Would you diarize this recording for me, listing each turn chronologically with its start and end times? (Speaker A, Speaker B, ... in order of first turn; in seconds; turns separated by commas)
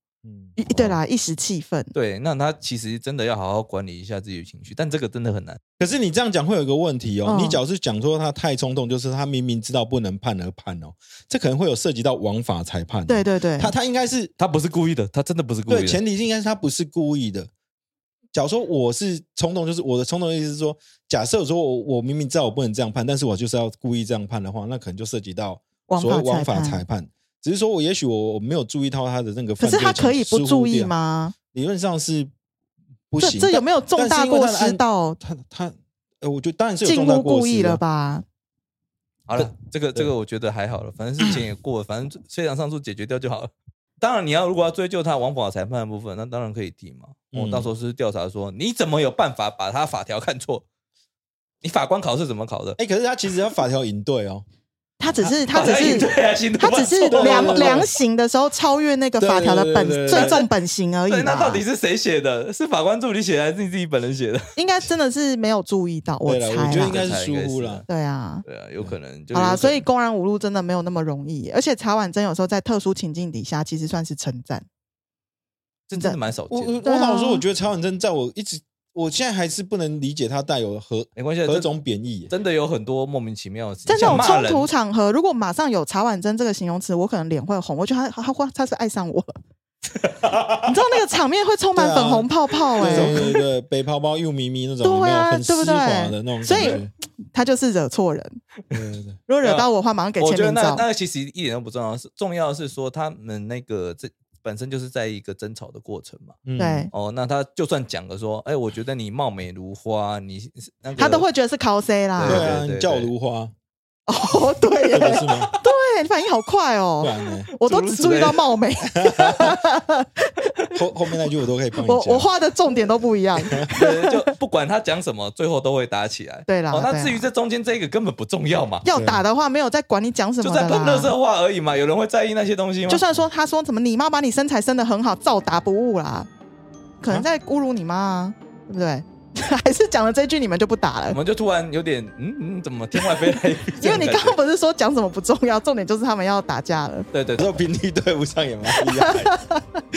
Speaker A: 0.2-0.9, Speaker B: 0.6-1.9, Speaker C: 0.7-0.9, Speaker C: 1.9-5.6, Speaker A: 5.8-14.3, Speaker B: 7.2-7.6, Speaker B: 13.1-13.7, Speaker C: 14.4-16.0, Speaker A: 15.7-17.5, Speaker A: 18.3-30.9, Speaker B: 25.9-26.9, Speaker B: 29.6-31.3, Speaker A: 31.5-32.3, Speaker A: 33.1-37.8, Speaker B: 33.2-35.2, Speaker B: 36.8-38.2, Speaker C: 39.3-50.6, Speaker A: 39.4-40.1, Speaker A: 47.3-47.7, Speaker C: 51.6-52.8, Speaker A: 52.8-54.4, Speaker B: 55.0-61.6, Speaker C: 55.2-57.9, Speaker A: 57.1-57.9, Speaker A: 59.2-60.4, Speaker C: 60.1-60.5, Speaker C: 61.1-64.4, Speaker B: 64.5-67.1, Speaker A: 66.2-67.8, Speaker C: 66.7-67.9, Speaker B: 67.9-68.4, Speaker C: 68.4-69.8, Speaker B: 69.3-74.7, Speaker C: 75.9-76.8, Speaker A: 76.5-82.3, Speaker B: 76.8-77.4, Speaker C: 81.2-81.7, Speaker C: 82.3-84.7, Speaker B: 83.9-89.3, Speaker A: 84.0-84.3, Speaker C: 89.9-90.7, Speaker B: 90.6-93.2, Speaker A: 91.7-96.9, Speaker C: 92.8-93.3, Speaker B: 94.8-98.4, Speaker C: 96.5-96.8, Speaker A: 98.7-99.2, Speaker B: 99.3-100.8, Speaker C: 99.4-106.4, Speaker A: 106.4-106.9, Speaker B: 106.6-106.9, Speaker C: 106.9-111.3, Speaker B: 111.0-112.5, Speaker C: 112.2-113.1, Speaker A: 112.2-113.5, Speaker B: 114.1-120.3, Speaker A: 114.9-115.5, Speaker A: 117.0-117.5, Speaker C: 117.6-118.5, Speaker A: 118.9-119.6, Speaker A: 120.7-122.3, Speaker B: 121.8-124.2, Speaker C: 123.7-128.8, Speaker B: 126.5-127.3, Speaker B: 128.8-131.1, Speaker A: 128.9-129.2, Speaker C: 130.4-133.0, Speaker B: 132.8-136.3, Speaker B: 137.0-141.2, Speaker C: 141.1-144.3, Speaker B: 143.7-147.1, Speaker C: 147.1-147.5, Speaker A: 147.4-149.3, Speaker B: 149.0-149.8